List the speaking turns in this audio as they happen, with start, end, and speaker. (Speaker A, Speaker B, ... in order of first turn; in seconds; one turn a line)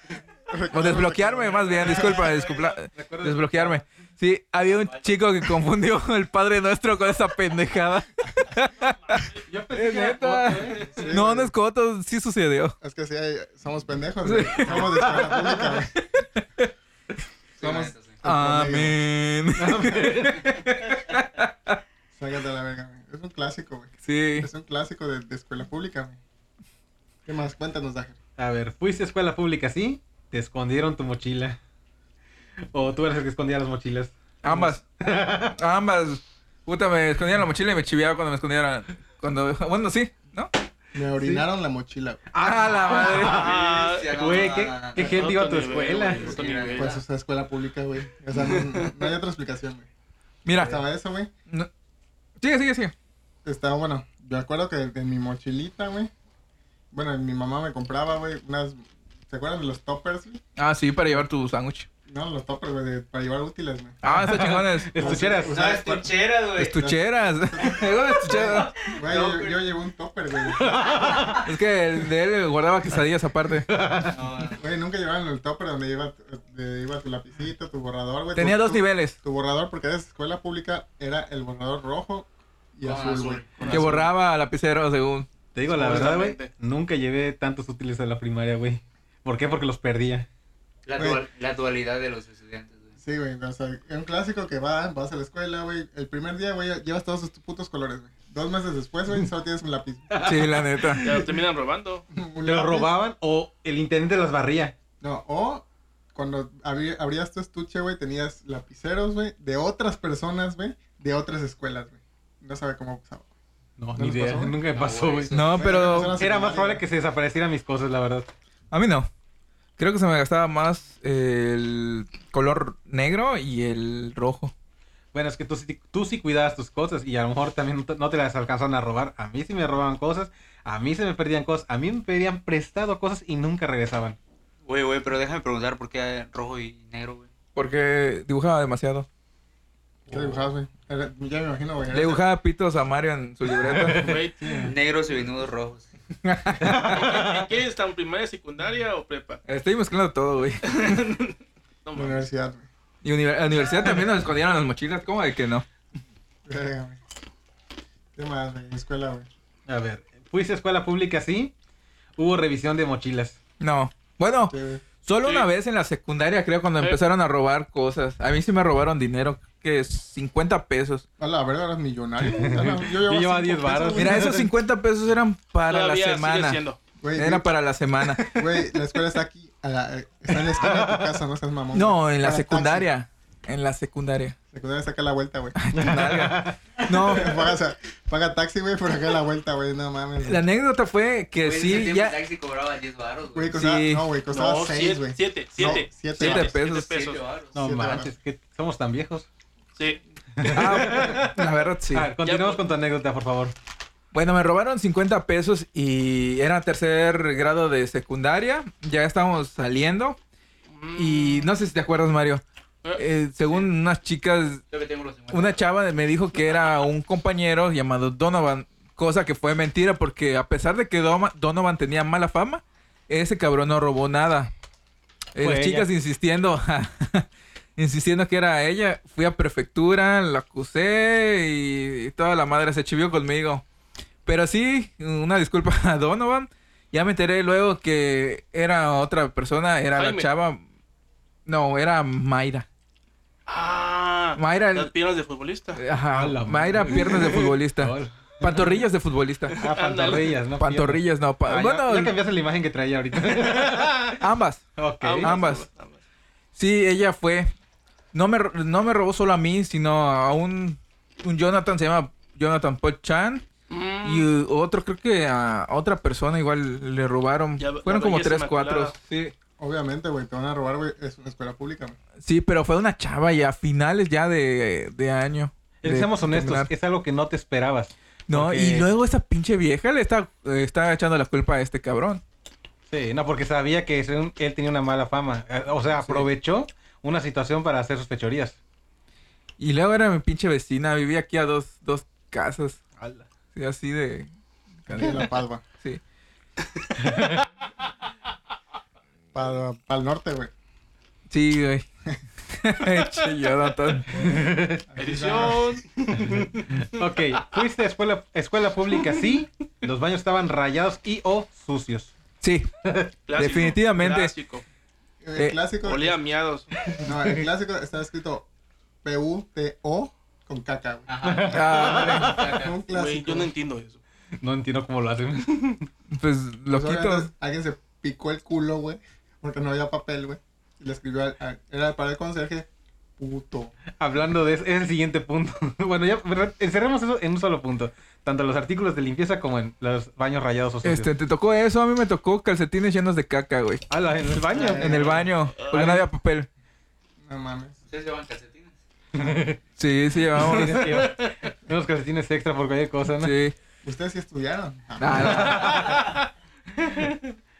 Speaker A: 0.5-2.3
Speaker B: 0.7-12.8
Speaker C: 1.6-2.8
Speaker D: 2.9-3.8
Speaker C: 4.7-5.3
Speaker D: 9.5-11.1
Speaker A: 10.9-11.5
Speaker A: 12.8-16.0
Speaker B: 14.2-15.0
Speaker D: 14.6-15.7
Speaker C: 17.6-18.2
Speaker A: 17.6-19.0
Speaker B: 18.2-21.8
Speaker D: 19.6-20.6
Speaker A: 22.1-26.2
Speaker B: 24.0-24.5
Speaker A: 27.3-28.2
Speaker D: 28.4-31.6
Speaker D: 32.7-35.6
Speaker B: 34.4-34.8
Speaker B: 35.6-40.5
Speaker A: 41.0-42.3
Speaker D: 41.1-41.5
Speaker D: 42.3-43.5
Speaker B: 42.4-43.5
Speaker C: 43.0-45.3
Speaker E: 43.2-47.0
Speaker D: 44.1-46.7
Speaker C: 46.1-47.0
Speaker A: 46.8-49.9
Speaker B: 50.5-50.8
Speaker A: 50.6-51.3
Speaker B: 52.4-52.9
Speaker A: 53.5-56.1
Speaker A: 56.9-60.4
Speaker B: 60.6-61.9
Speaker A: 62.1-64.0
Speaker B: 64.0-65.2
Speaker D: 64.0-65.6
Speaker A: 65.0-71.1
Speaker C: 65.4-66.9
Speaker B: 66.6-68.7
Speaker C: 68.1-69.6
Speaker D: 70.5-71.4
Speaker C: 71.0-71.4
Speaker B: 71.4-73.7
Speaker D: 73.6-74.2
Speaker C: 74.0-74.6
Speaker A: 74.5-84.1
Speaker B: 78.3-79.2
Speaker C: 82.8-83.7
Speaker E: 83.1-83.9
Speaker D: 83.7-84.0
Speaker B: 83.7-85.3
Speaker D: 85.5-90.3
Speaker E: 85.7-86.5
Speaker C: 90.9-93.0
Speaker A: 91.0-91.2
Speaker A: 93.0-100.2
Speaker D: 100.1-101.0
Speaker B: 100.2-101.2
Speaker E: 101.0-102.1
Speaker A: 102.1-102.9
Speaker D: 102.4-104.8
Speaker A: 105.0-113.3
Speaker D: 113.8-115.4
Speaker A: 113.9-114.6
Speaker C: 114.7-115.8
Speaker B: 115.3-116.2
Speaker A: 115.5-116.9
Speaker D: 116.2-118.3
Speaker B: 118.7-119.1
Speaker B: 119.8-124.5
Speaker D: 125.1-134.2
Speaker C: 134.7-137.3
Speaker B: 137.6-139.1
Speaker D: 140.1-140.5
Speaker A: 140.1-142.2
Speaker B: 141.9-144.2
Speaker D: 143.5-144.2
Speaker E: 143.9-144.6
Speaker A: 144.4-144.7
Speaker C: 144.5-145.9
Speaker B: 146.2-146.7
Speaker D: 146.6-147.5
Speaker E: 146.8-149.4
Speaker B: 149.5-151.2
Speaker E: 150.6-152.3
Speaker A: 151.9-152.7
Speaker B: 153.0-155.7
Speaker A: 156.5-157.0
Speaker A: 158.2-159.3
Speaker D: 159.7-161.5
Speaker D: 162.2-163.4
Speaker B: 163.6-171.1
Speaker A: 164.5-164.9
Speaker E: 165.2-165.5
Speaker A: 171.2-174.5
Speaker D: 172.2-174.5
Speaker B: 174.0-176.6
Speaker E: 175.7-176.8
Speaker A: 177.0-177.5
Speaker B: 177.1-178.3
Speaker D: 178.0-178.7
Speaker A: 178.3-182.9
Speaker D: 180.3-181.1
Speaker B: 181.8-184.4
Speaker A: 184.5-185.8
Speaker B: 185.6-187.4
Speaker D: 185.8-187.4
Speaker A: 187.0-190.5
Speaker B: 190.2-192.2
Speaker C: 191.4-193.6
Speaker A: 193.3-196.6
Speaker B: 193.5-194.1
Speaker E: 194.3-197.2
Speaker B: 196.1-196.9
Speaker C: 196.6-197.7
Speaker A: 197.6-198.1
Speaker D: 197.6-199.3
Speaker E: 199.8-201.1
Speaker D: 200.4-203.5
Speaker B: 200.5-202.1
Speaker E: 202.2-202.6
Speaker B: 204.1-210.2
Speaker E: 210.7-211.5
Speaker B: 210.9-212.4
Speaker E: 212.8-213.7
Speaker B: 213.0-214.6
Speaker C: 214.7-215.7
Speaker B: 215.3-224.5
Speaker B: 225.3-233.6
Speaker D: 225.4-225.9
Speaker B: 234.3-240.6
Speaker E: 239.9-240.3
Speaker B: 241.5-242.7
Speaker E: 243.5-245.8
Speaker B: 244.4-244.9
Speaker B: 245.8-249.6
Speaker D: 246.1-248.8
Speaker E: 249.5-250.4
Speaker D: 249.6-254.2
Speaker B: 250.6-252.2
Speaker B: 254.2-254.7
Speaker D: 254.8-255.3
Speaker E: 255.0-256.0
Speaker B: 255.2-255.7
Speaker B: 256.6-257.5
Speaker B: 258.1-263.4
Speaker E: 263.7-264.3
Speaker B: 264.0-269.4
Speaker E: 267.6-269.0
Speaker A: 269.6-272.0
Speaker B: 272.2-276.7
Speaker D: 275.8-278.9
Speaker B: 278.3-282.2
Speaker D: 282.9-288.6
Speaker B: 286.0-286.3
Speaker B: 289.6-292.8
Speaker D: 293.0-293.3
Speaker B: 293.6-294.3
Speaker B: 294.9-296.0
Speaker A: 294.9-295.7
Speaker D: 297.0-297.4
Speaker A: 299.3-300.5
Speaker B: 301.3-301.9
Speaker B: 302.5-304.3
Speaker A: 304.1-305.8
Speaker D: 304.2-304.8
Speaker E: 305.0-306.9
Speaker D: 306.2-312.1
Speaker B: 312.4-312.7
Speaker D: 312.9-313.1
Speaker E: 313.3-314.6
Speaker B: 313.3-314.3
Speaker A: 315.2-316.2
Speaker E: 315.8-316.7
Speaker D: 316.9-317.4
Speaker A: 317.0-318.5
Speaker A: 319.0-323.5
Speaker C: 321.1-322.8
Speaker D: 321.2-322.6
Speaker B: 321.4-322.4
Speaker E: 322.9-324.0
Speaker D: 324.4-325.9
Speaker B: 326.1-327.3
Speaker A: 326.7-333.7
Speaker D: 334.0-341.1
Speaker B: 340.8-343.9
Speaker D: 343.9-346.1
Speaker A: 344.5-345.2
Speaker B: 344.7-346.5
Speaker E: 345.6-345.9
Speaker A: 347.2-347.8
Speaker C: 347.9-348.8
Speaker D: 349.1-349.6
Speaker B: 349.8-351.0
Speaker D: 350.3-353.4
Speaker E: 350.4-351.3
Speaker B: 353.2-353.6
Speaker A: 353.8-355.5
Speaker B: 355.0-356.0
Speaker D: 355.1-356.1
Speaker E: 355.8-356.2